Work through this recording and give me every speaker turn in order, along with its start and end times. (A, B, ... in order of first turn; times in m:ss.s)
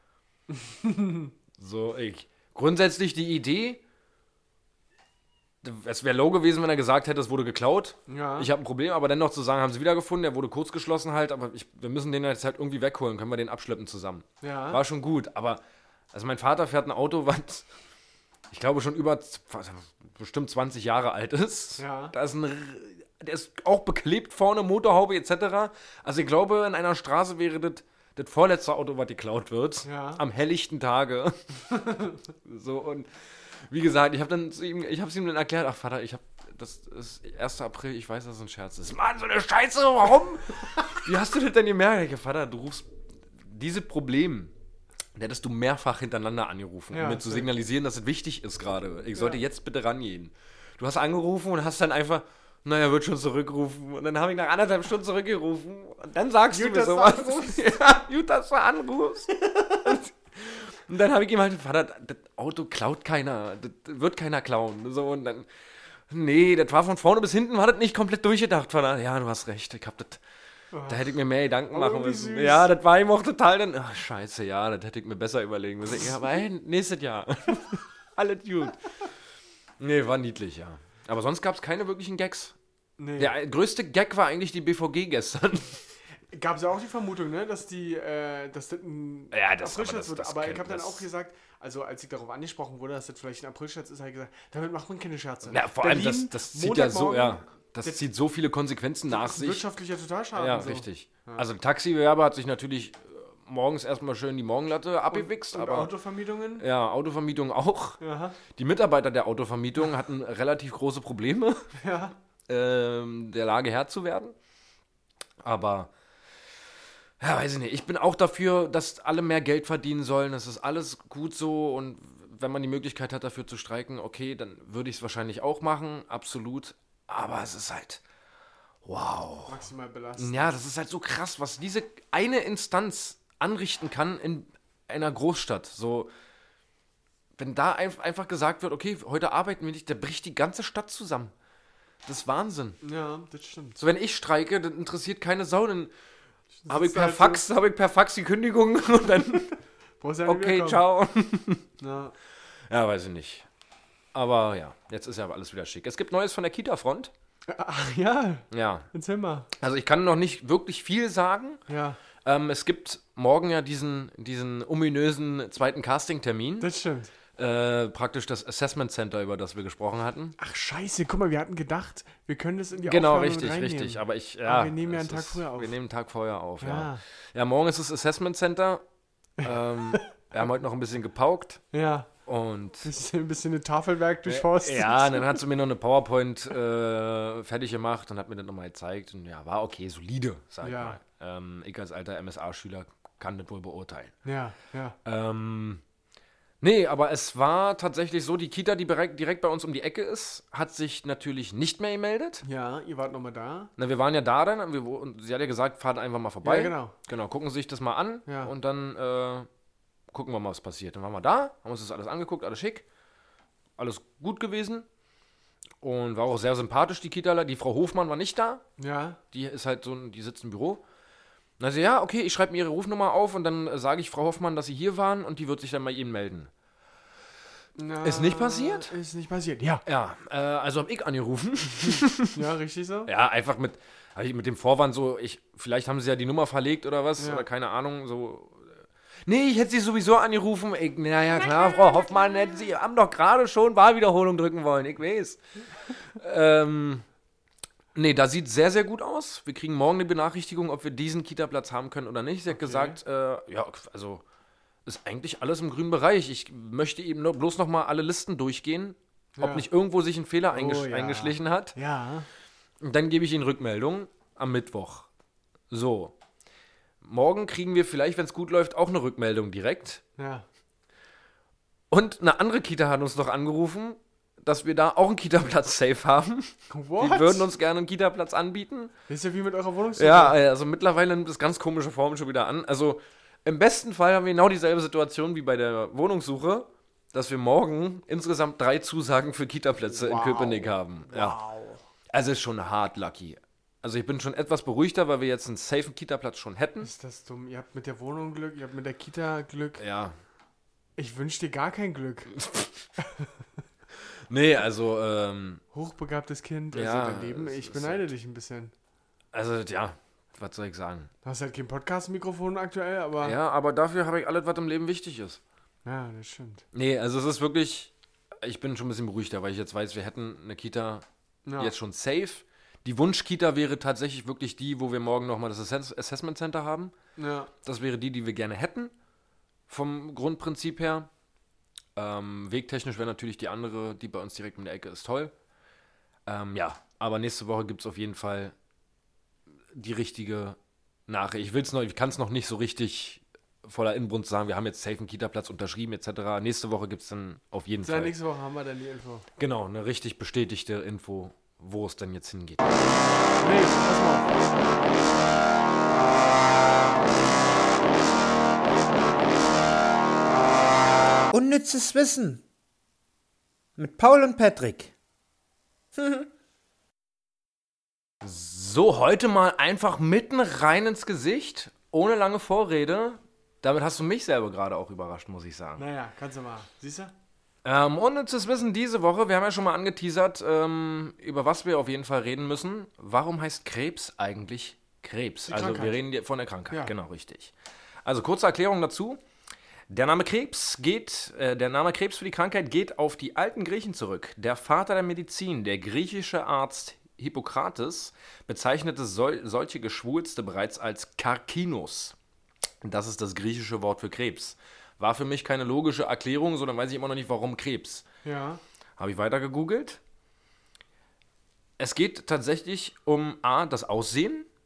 0:00.5-0:01.3 A
0:01.6-0:03.8 B
0:05.6-0:15.6 B
0:08.1-0:08.5 A
0:14.4-0:14.8 A
0:16.1-0:17.7 B
0:18.5-0:31.4 B
0:21.8-0:22.1 A
0:29.8-0:30.2 A
0:31.8-0:32.2 A
0:32.4-0:44.5 B
0:45.1-1:05.5 B
0:46.9-0:47.5 A
0:49.1-0:49.4 A
0:56.5-0:57.7 A
1:06.1-1:10.2 B
1:10.7-1:11.1 A
1:10.9-1:18.8 B
1:11.7-1:12.7 A
1:19.8-1:22.5 B
1:23.0-1:23.3 A
1:23.2-1:25.8 B
1:26.3-1:38.0 A
1:29.3-1:31.0 B
1:35.5-1:39.7 B
1:39.1-1:41.4 A
1:40.3-1:45.9 B
1:45.1-1:46.6 A
1:46.6-1:51.6 B
1:48.0-1:48.4 A
1:51.8-1:52.2 A
1:52.5-1:54.3 B
1:55.4-1:55.9 B
1:57.2-2:08.0 B
2:08.8-2:09.6 B
2:09.5-2:10.5 A
2:10.2-2:16.1 B
2:17.4-2:21.3 B
2:22.0-2:22.8 B
2:22.8-2:23.8 A
2:23.8-2:25.9 B
2:26.6-2:27.4 A
2:26.7-2:29.5 B
2:30.0-2:30.8 A
2:30.2-2:31.6 B
2:31.8-2:32.1 A
2:32.7-2:33.5 B
2:34.1-2:37.1 B
2:37.5-2:39.5 A
2:38.5-2:38.9 B
2:39.6-2:41.6 B
2:41.7-2:42.0 A
2:42.2-2:46.7 B
2:46.6-2:47.1 A
2:47.4-2:50.3 B
2:50.4-2:55.8 A
2:52.8-2:58.8 B
2:56.6-2:57.0 A
2:59.4-3:01.6 B
2:59.4-3:00.1 A
3:01.7-3:02.1 A
3:02.2-3:02.9 B
3:02.8-3:05.4 A
3:04.2-3:14.1 B
3:10.6-3:11.0 A
3:14.2-3:15.0 A
3:15.0-3:15.8 B
3:16.6-3:22.4 B
3:22.4-3:23.7 A
3:23.8-3:29.5 B
3:26.4-3:26.9 A
3:28.2-3:28.5 A
3:30.1-3:32.8 B
3:33.8-3:34.8 B
3:35.8-3:38.6 B
3:38.8-3:39.2 A
3:39.3-3:40.8 B
3:41.6-3:46.5 B
3:47.8-3:49.8 A
3:48.0-3:48.9 B
3:49.8-3:52.4 B
3:52.2-3:53.1 A
3:53.1-4:05.4 B
3:57.2-3:57.4 A
4:06.1-4:07.0 B
4:07.9-4:14.2 B
4:12.5-4:13.0 A
4:14.8-4:21.8 B
4:19.4-4:19.7 A
4:20.5-4:22.3 A
4:22.8-4:25.1 B
4:25.7-4:26.2 B
4:27.0-4:30.0 B
4:30.2-4:30.4 A
4:31.9-4:38.9 B
4:36.7-4:37.4 A
4:39.1-4:40.4 A
4:40.0-4:51.4 B
4:49.9-4:51.8 A
4:52.1-4:56.9 B
4:56.8-4:59.8 A
4:59.8-5:00.2 B
5:01.0-5:02.4 A
5:02.4-5:02.7 B
5:03.0-5:03.3 A
5:04.1-5:05.6 B
5:05.7-5:08.7 A
5:06.7-5:08.1 B
5:09.3-5:11.1 B
5:11.2-5:13.4 A
5:13.2-5:15.4 B
5:15.8-5:16.6 A
5:16.7-5:21.0 B
5:21.4-5:21.7 A
5:21.6-5:26.9 B
5:27.2-5:27.5 A
5:27.6-5:28.9 B
5:29.7-5:31.1 B
5:32.0-5:35.3 B
5:36.2-5:38.5 B
5:39.7-5:48.1 B
5:47.8-5:49.2 A
5:49.4-5:52.8 B
5:53.4-5:54.5 A
6:01.3-6:02.4 C
6:03.8-6:04.9 C
6:05.9-6:06.3 C
6:08.2-6:15.8 B
6:15.8-6:17.1 A
6:17.6-6:29.2 B
6:25.5-6:26.0 A
6:29.9-6:42.2 B
6:42.8-6:48.0 B
6:48.2-6:48.6 A
6:49.0-6:50.0 B
6:51.8-6:54.5 B